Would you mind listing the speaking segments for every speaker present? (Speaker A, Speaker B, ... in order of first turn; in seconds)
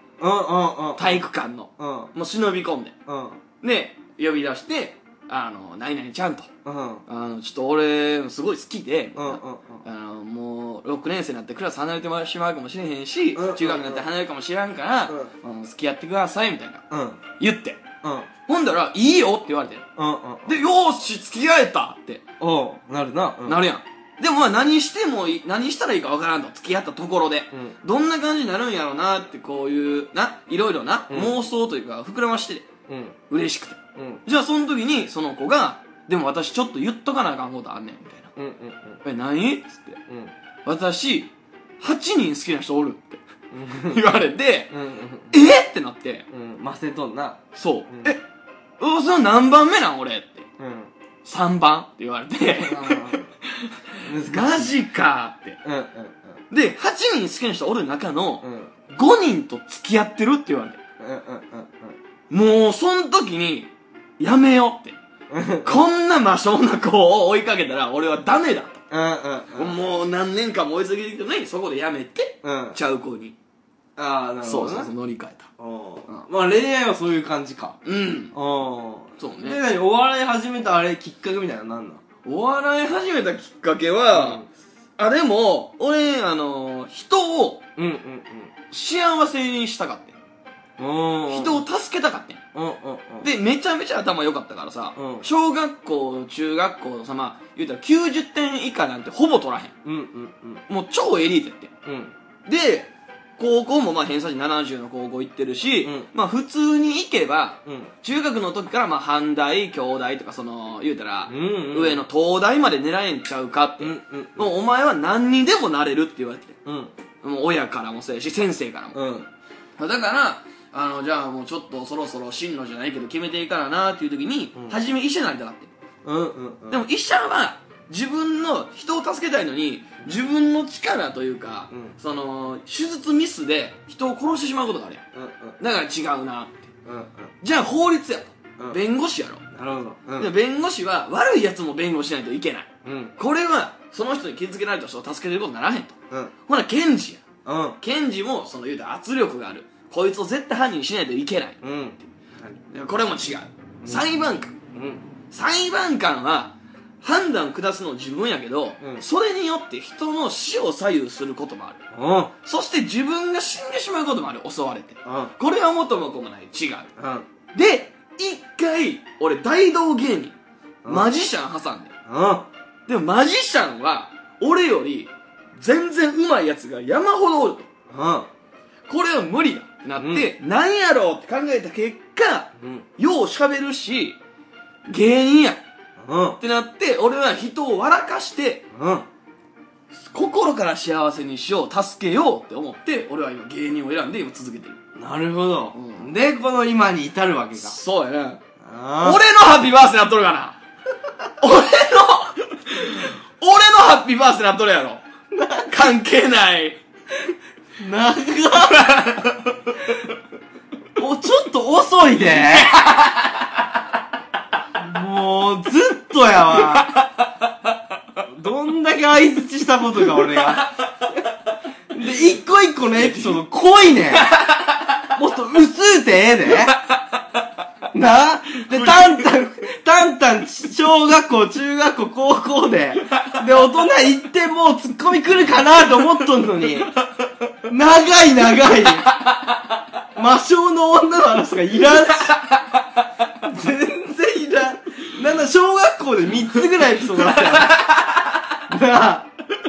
Speaker A: 0.2-1.2, 1.8-2.1, 3.1-3.4, 6.6-7.0, 9.2-9.8, 13.3-14.1, 16.9-17.2, 18.0-18.3, 20.0-20.6, 22.4-23.6, 31.1-31.3, 32.9-33.2, 34.0-34.2, 38.4-39.0, 43.5-44.0, 44.7-45.3, 46.3-48.1, 50.6-50.9, 52.5-53.3, 54.0-54.7, 55.6-56.4, 58.4-58.7, 61.0-62.0, 65.3-65.8, 68.9-69.8, 72.4-72.8, 74.0-74.9, 75.6-77.8, 78.3-82.0, 84.1-84.5, 87.8-88.5, 90.8-91.6, 92.5-93.3, 95.0-95.2, 99.8-100.6, 101.8-102.1, 105.8-106.1, 107.7-107.9, 111.3-112.0, 113.8-114.5, 116.6-116.9, 118.9-119.3, 126.0-126.8, 135.1-135.6, 136.8-137.3, 139.5-140.3, 142.8-143.1, 147.4-147.8, 151.6-152.6, 153.8-154.1, 154.7-155.0, 161.9-162.3, 165.0-165.3, 167.0-167.2, 170.8-171.1, 172.1-172.5, 177.9-178.3, 180.0-180.3, 182.6-182.8, 186.0-186.4, 188.7-189.1, 194.9-197.8, 198.6-199.2, 205.3-205.9, 207.8-208.9, 211.0-212.7, 214.7-216.9, 218.3-220.7, 221.9-224.3, 225.1-226.8, 227.9-236.9, 237.7-239.1, 240.1-242.4, 243.4-247.8, 248.7-249.3
Speaker B: 1.0-2.9, 3.6-6.5, 7.1-16.8, 17.4-17.8, 18.5-19.9, 20.4-22.2, 23.4-32.7, 33.3-38.3, 39.0-40.0, 40.6-43.2, 43.8-44.7, 45.3-46.2, 47.5-48.2, 48.8-50.5, 51.2-55.6, 56.5-60.8, 62.3-65.0, 65.6-68.8, 69.5-73.3, 74.4-75.5, 77.8-78.3, 79.2-79.6, 82.2-84.4, 85.0-87.6, 88.7-90.2, 91.3-92.4, 93.2-99.7, 100.7-101.7, 102.5-116.6, 117.2-119.0, 119.8-125.7, 126.7-135.0, 135.6-136.7, 137.4-139.4, 140.2-147.2, 147.8-151.6, 152.7-154.6, 155.3-161.8, 162.4-166.9, 167.5-170.3, 170.9-171.9, 172.9-177.7, 178.9-184.2, 184.9-185.6, 186.4-188.7, 189.9-194.8, 195.7-196.1, 197.5-198.4, 199.0-200.6, 201.4-205.0, 205.7-206.8, 208.7-209.7, 212.5-213.5, 216.8-217.4, 220.2-220.7, 222.9-223.4, 224.1-225.1, 226.7-227.2, 228.6-229.2, 239.1-239.6, 242.0-243.2, 246.8-248.6